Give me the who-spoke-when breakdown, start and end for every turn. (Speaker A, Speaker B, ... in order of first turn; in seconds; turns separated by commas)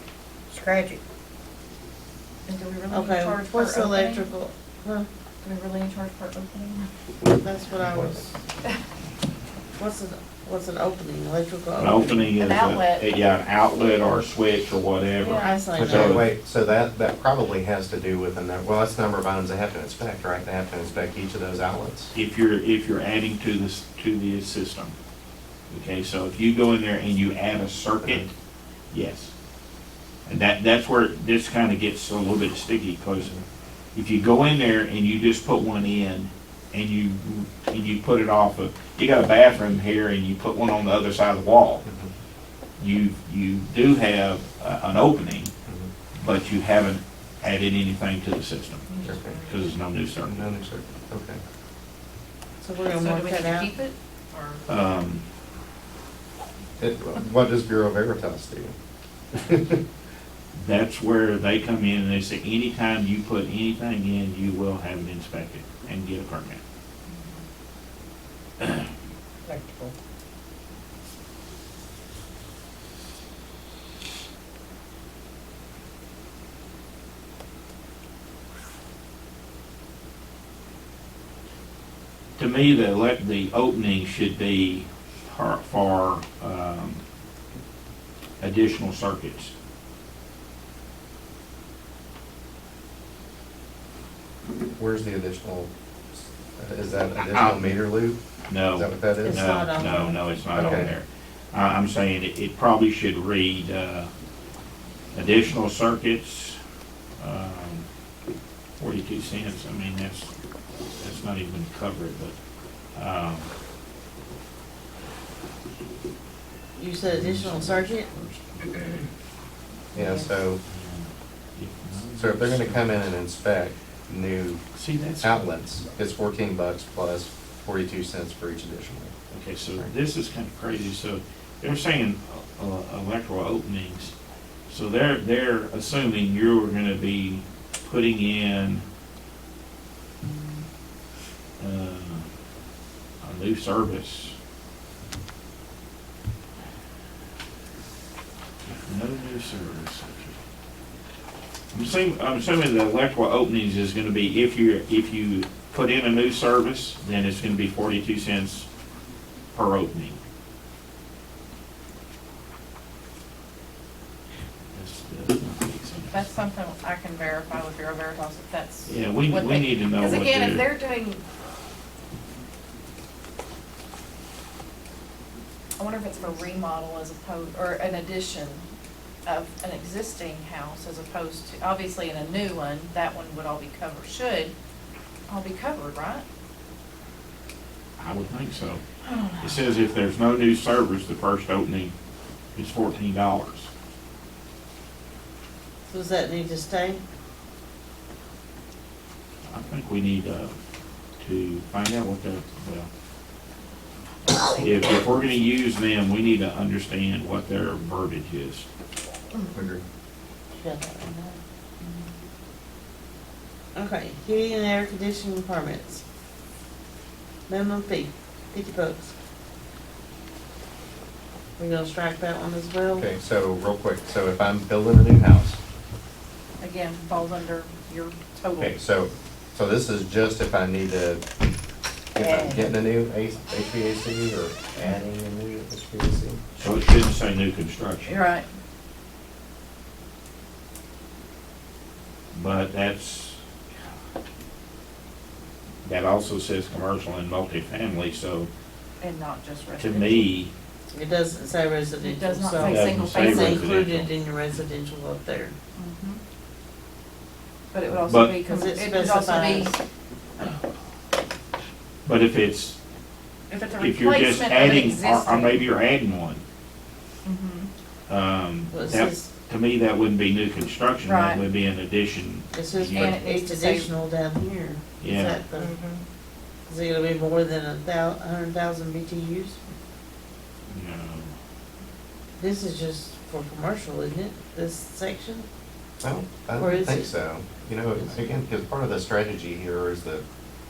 Speaker A: 0.5-1.0, Speaker A: 2.5-4.3, Speaker B: 2.9-5.1, Speaker A: 5.4-6.9, Speaker B: 7.4-8.3, Speaker B: 9.8-12.3, Speaker C: 11.8-16.2, Speaker A: 12.4-13.1, Speaker A: 15.2-15.7, Speaker B: 15.4-16.2, Speaker D: 15.8-22.1, Speaker C: 22.1-24.9, Speaker C: 25.7-28.3, Speaker D: 28.0-28.3, Speaker C: 28.9-29.3, Speaker C: 30.2-33.3, Speaker D: 33.2-33.4, Speaker C: 33.9-41.8, Speaker D: 41.8-42.1, Speaker C: 42.8-45.5, Speaker C: 46.1-50.5, Speaker A: 48.9-49.8, Speaker D: 49.0-49.4, Speaker D: 50.2-51.4, Speaker B: 52.6-53.7, Speaker A: 52.8-54.7, Speaker C: 54.7-55.2, Speaker D: 56.8-58.7, Speaker D: 59.3-59.8, Speaker C: 60.5-66.6, Speaker A: 67.1-67.4, Speaker C: 68.6-68.9, Speaker A: 69.5-69.9, Speaker C: 82.4-87.0, Speaker C: 88.4-89.5, Speaker D: 94.8-98.2, Speaker C: 97.2-97.8, Speaker C: 98.5-104.1, Speaker D: 98.7-99.5, Speaker B: 99.2-100.9, Speaker D: 100.5-100.9, Speaker C: 105.1-106.6, Speaker C: 107.2-107.9, Speaker C: 108.8-110.3, Speaker C: 110.9-112.3, Speaker C: 112.9-113.5, Speaker B: 116.8-118.1, Speaker C: 117.0-119.0, Speaker D: 119.9-120.6, Speaker A: 119.9-120.3, Speaker C: 120.7-123.1, Speaker D: 122.1-124.6, Speaker C: 124.7-125.4, Speaker D: 125.2-129.2, Speaker C: 129.3-134.2, Speaker C: 134.7-138.8, Speaker C: 141.6-142.3, Speaker C: 143.2-144.4, Speaker C: 148.8-150.4, Speaker C: 151.7-158.7, Speaker C: 159.5-160.2, Speaker C: 164.7-166.3, Speaker A: 166.1-171.2, Speaker C: 168.9-170.7, Speaker A: 175.8-178.6, Speaker A: 179.3-184.5, Speaker A: 185.3-186.2, Speaker C: 188.0-188.8, Speaker A: 189.0-189.6, Speaker C: 189.4-191.9, Speaker C: 192.6-193.7, Speaker B: 195.9-197.0, Speaker C: 199.5-200.5, Speaker C: 201.2-202.9, Speaker C: 204.6-208.7, Speaker D: 209.5-209.8, Speaker B: 210.6-211.4, Speaker A: 211.8-212.1, Speaker B: 213.8-216.0, Speaker B: 217.5-219.1, Speaker B: 221.6-223.1, Speaker D: 222.9-225.6, Speaker A: 226.6-228.8, Speaker D: 228.6-231.2, Speaker D: 232.2-236.4, Speaker A: 232.2-232.7, Speaker C: 236.6-238.2, Speaker A: 238.1-238.5, Speaker C: 242.3-243.4, Speaker C: 245.8-248.5, Speaker A: 249.0-250.3, Speaker C: 249.8-250.5, Speaker B: 250.9-255.5, Speaker A: 252.0-253.8, Speaker C: 252.6-254.1, Speaker A: 255.8-256.2, Speaker A: 257.7-259.8, Speaker C: 258.0-258.4, Speaker B: 258.4-259.8, Speaker C: 262.0-262.8, Speaker A: 263.5-265.6, Speaker C: 263.8-266.4, Speaker A: 267.2-267.7, Speaker C: 268.1-273.2, Speaker B: 268.7-269.3, Speaker A: 271.0-271.4, Speaker B: 272.5-275.8, Speaker A: 272.9-273.9, Speaker C: 275.0-275.4, Speaker A: 275.6-276.0, Speaker B: 276.7-279.6, Speaker C: 280.7-281.3, Speaker B: 282.4-285.5, Speaker D: 286.0-290.2, Speaker B: 286.6-287.2, Speaker B: 287.9-288.3